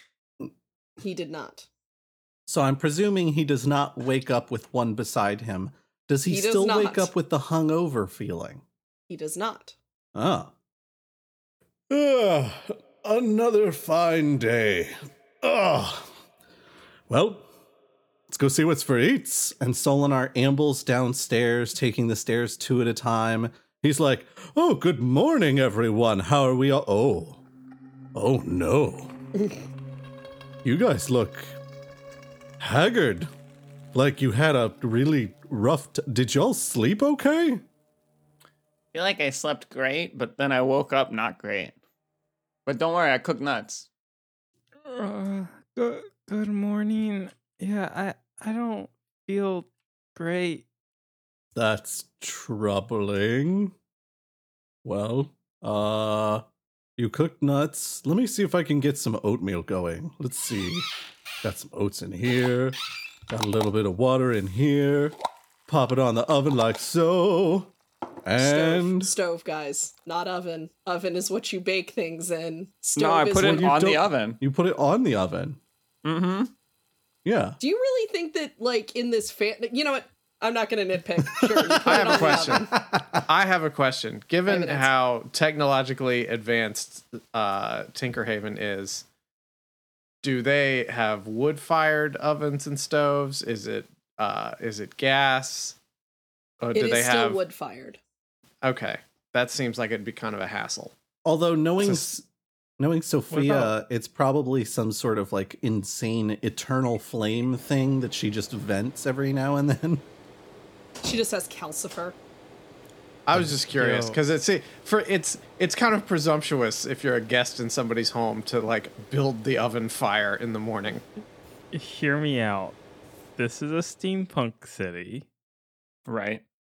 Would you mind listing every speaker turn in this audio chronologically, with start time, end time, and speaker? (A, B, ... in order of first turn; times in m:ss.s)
0:01.0-0:01.7 A
0:02.5-0:08.6 B
0:06.3-0:07.1 A
0:09.1-0:09.8 A
0:10.2-0:10.5 B
0:11.9-0:16.1 B
0:17.1-0:17.5 B
0:18.3-0:27.4 B
0:28.1-0:29.1 B
0:30.6-0:31.6 B
0:32.6-0:33.3 B
0:33.9-0:37.6 B
0:38.9-0:41.8 C
0:42.7-0:43.9 C
0:44.8-0:50.7 D
0:51.6-0:53.7 B
0:54.8-0:56.4 B
0:57.0-1:00.9 B
1:01.4-1:02.8 B
1:03.3-1:05.2 B
1:05.7-1:07.7 B
1:08.2-1:09.1 B
1:08.4-1:13.8 A
1:13.0-1:14.4 C
1:13.4-1:15.6 B
1:16.0-1:16.5 C
1:17.2-1:17.6 B
1:17.6-1:22.7 A
1:21.4-1:23.2 B
1:21.8-1:29.0 E
1:24.5-1:24.9 A
1:30.2-1:35.8 E
1:36.6-1:37.4 E
1:36.7-1:38.0 A
1:38.6-1:40.9 E
1:41.2-1:42.3 B
1:42.8-1:50.0 B
1:43.3-1:43.7 D
1:51.0-1:52.2 A
1:53.3-2:01.0 E
1:53.7-1:54.2 D
2:01.7-2:02.8 D
2:03.4-2:05.3 D
2:06.1-2:06.4 C